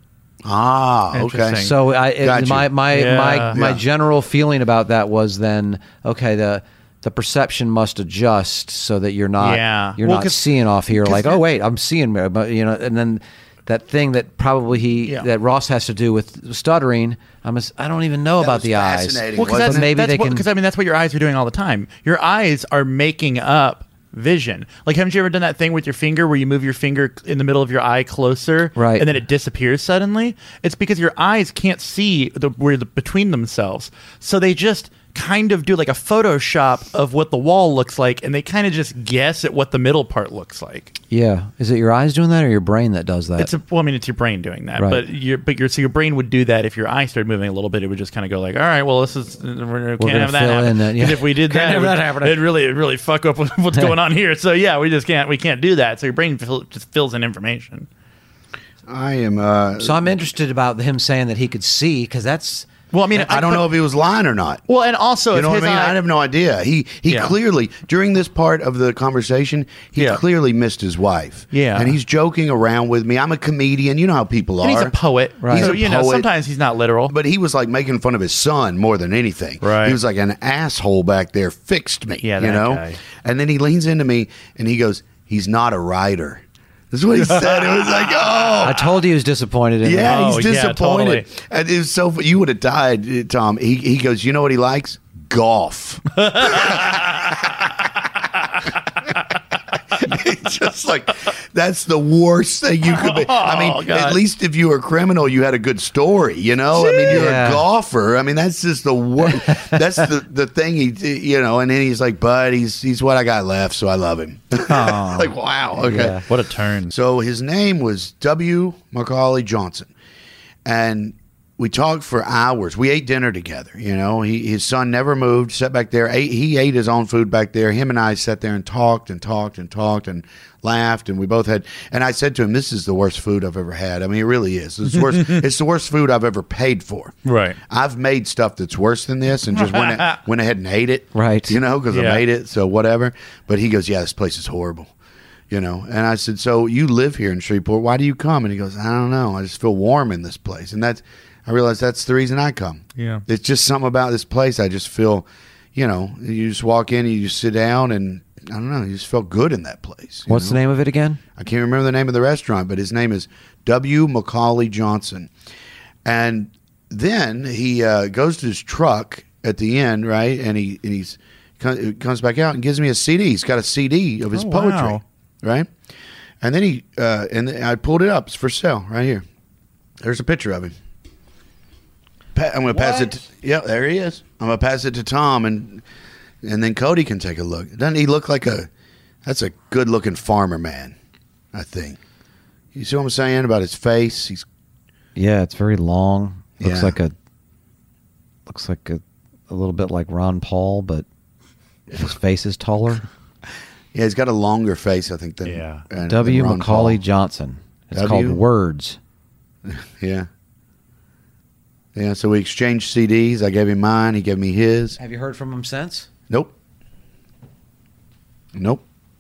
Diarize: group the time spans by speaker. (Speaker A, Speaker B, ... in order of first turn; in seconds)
Speaker A: 0.4-2.7, 3.5-3.8, 18.4-19.9, 58.9-60.1, 63.2-64.6, 65.3-74.9, 75.5-76.3, 77.1-88.8, 89.8-97.5, 99.9-116.2, 116.9-119.9, 120.6-137.1, 137.7-144.9, 145.5-160.6, 161.3-165.3, 166.0-175.7, 176.4-179.2, 180.0-180.7, 182.3-185.8, 186.4-188.7, 189.2-190.9, 191.5-192.0, 192.7-194.4, 196.6-197.0, 203.9-207.0, 207.9-208.4, 209.7-210.3, 211.9-215.0, 218.5-218.8
Speaker B: 1.1-1.8, 2.9-3.6, 9.4-10.5, 11.0-11.4, 19.4-40.9, 43.4-57.9, 62.9-63.7, 64.7-66.0, 67.1-67.3, 70.0-70.2, 71.5-72.0, 74.6-77.1, 79.6-80.0, 82.2-83.0, 87.2-88.8, 90.0-91.2, 96.2-97.7, 102.9-104.2, 116.2-116.9, 134.9-135.4, 137.2-137.6, 139.5-140.2, 141.9-142.2, 152.9-153.2, 174.3-175.0, 205.4-205.8
Speaker C: 1.6-20.4, 28.8-29.1, 41.1-43.5, 44.8-45.0, 50.0-52.4, 59.8-62.7, 75.4-75.8, 88.6-90.3, 107.0-107.6, 109.4-109.8, 114.7-116.2, 141.1-141.6, 160.3-161.2, 182.7-183.1, 195.1-197.1, 198.5-201.0, 201.9-203.0, 206.1-209.0, 215.0-216.1